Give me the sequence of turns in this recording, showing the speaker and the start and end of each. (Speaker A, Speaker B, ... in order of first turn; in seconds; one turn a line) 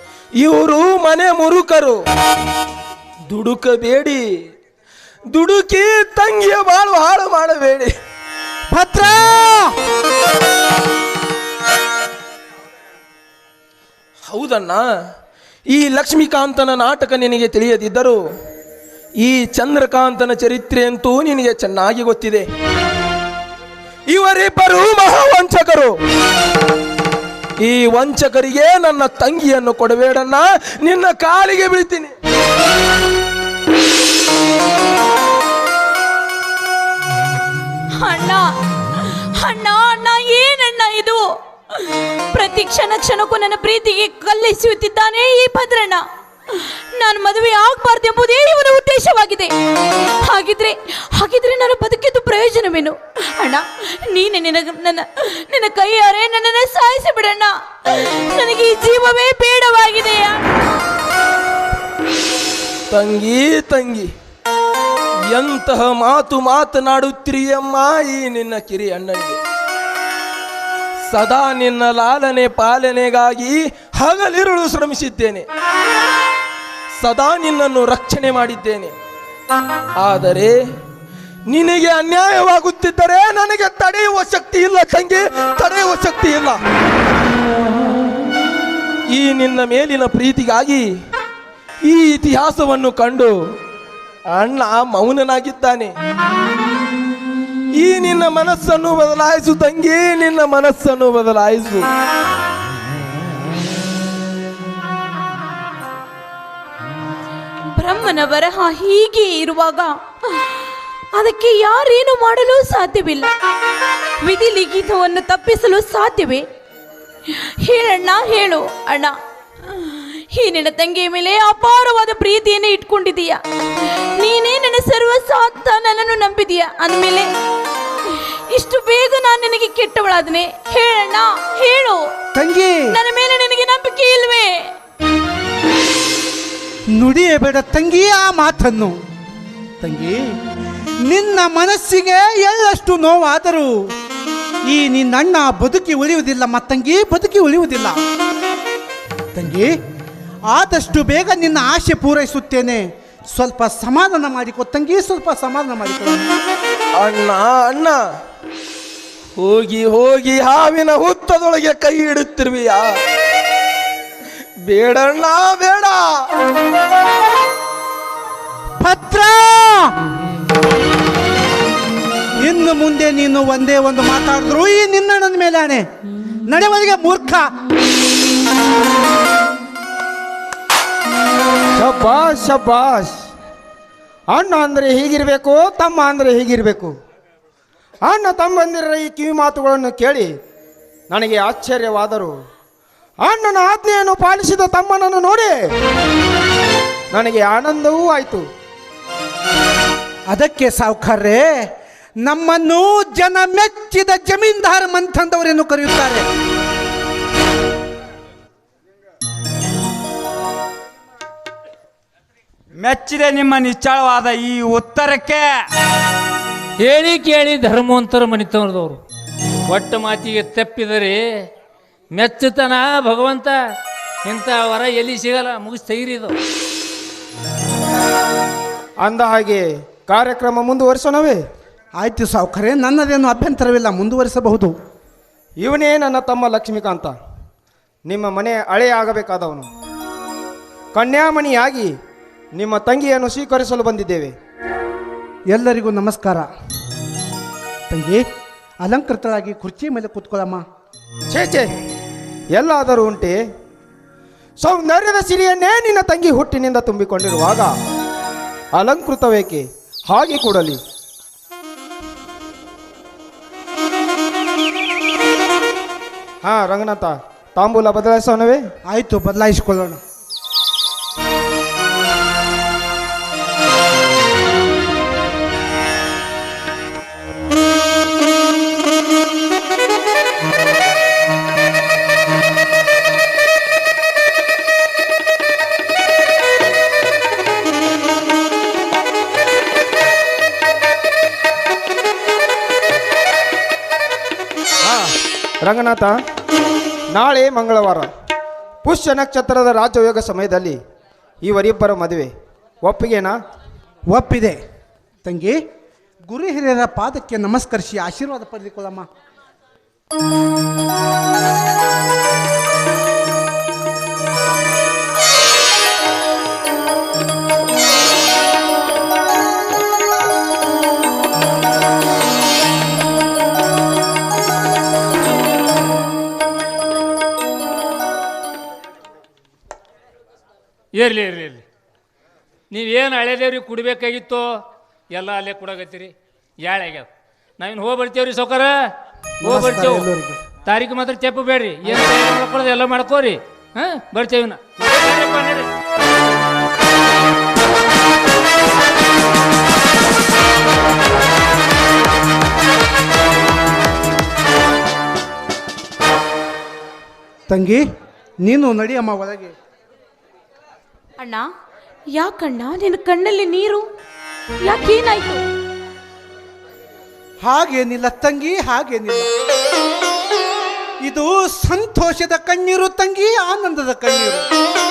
Speaker A: 0.4-2.0
Speaker A: 3.3-4.2
Speaker A: 5.3-7.9
Speaker B: 8.7-9.7
Speaker A: 14.3-14.8
Speaker A: 15.7-18.2
Speaker A: 19.2-22.4
Speaker A: 24.1-25.9
Speaker A: 27.6-32.1
Speaker C: 38.0-38.5
Speaker C: 39.0-60.5
Speaker A: 62.9-64.1
Speaker A: 65.3-69.4
Speaker A: 71.1-75.4
Speaker A: 76.9-78.9
Speaker A: 80.0-80.5
Speaker A: 81.5-86.6
Speaker A: 89.1-90.8
Speaker A: 91.8-93.3
Speaker A: 94.3-95.9
Speaker A: 97.8-101.9
Speaker C: 107.7-113.3
Speaker C: 114.2-116.4
Speaker C: 117.3-119.1
Speaker C: 119.7-127.3
Speaker C: 128.1-132.0
Speaker B: 132.3-132.8
Speaker C: 132.9-134.7
Speaker B: 136.9-139.0
Speaker B: 139.8-140.2
Speaker B: 141.0-143.9
Speaker B: 144.6-148.0
Speaker B: 149.3-149.7
Speaker B: 150.5-156.3
Speaker A: 157.0-158.0
Speaker A: 159.3-162.9
Speaker A: 164.7-166.2
Speaker B: 168.8-169.9
Speaker B: 172.4-175.8
Speaker B: 176.5-177.5
Speaker D: 181.8-183.2
Speaker D: 184.3-186.9
Speaker D: 188.0-190.3
Speaker D: 191.1-192.3
Speaker D: 193.2-195.5
Speaker D: 197.1-198.4
Speaker B: 200.3-201.7
Speaker B: 202.2-206.2
Speaker E: 212.8-215.6
Speaker F: 216.8-219.0
Speaker F: 219.7-221.2
Speaker F: 222.1-223.6
Speaker F: 224.2-226.3
Speaker D: 229.0-231.4
Speaker B: 231.9-234.7
Speaker D: 235.6-237.1
Speaker D: 238.1-239.7
Speaker D: 240.9-241.9
Speaker D: 242.5-244.3
Speaker B: 245.5-246.5
Speaker B: 247.9-248.2
Speaker B: 248.8-250.6
Speaker D: 251.3-251.7
Speaker D: 252.5-253.4
Speaker D: 254.6-257.7
Speaker D: 258.7-260.8
Speaker D: 266.4-268.6
Speaker B: 268.9-270.0
Speaker D: 294.8-295.1
Speaker D: 295.6-296.2
Speaker D: 297.1-298.1
Speaker D: 298.8-300.8
Speaker D: 301.4-302.3
Speaker D: 302.8-303.4
Speaker B: 304.1-304.6
Speaker B: 305.2-305.6
Speaker B: 306.2-309.1
Speaker F: 330.9-331.6
Speaker F: 332.7-337.1
Speaker F: 337.6-338.7
Speaker F: 339.4-340.1
Speaker B: 339.4-340.4
Speaker F: 340.6-345.7
Speaker B: 357.5-357.8
Speaker B: 358.4-359.5
Speaker C: 361.2-361.5
Speaker C: 362.1-363.9
Speaker C: 364.6-365.4
Speaker B: 367.4-369.3
Speaker B: 371.0-374.4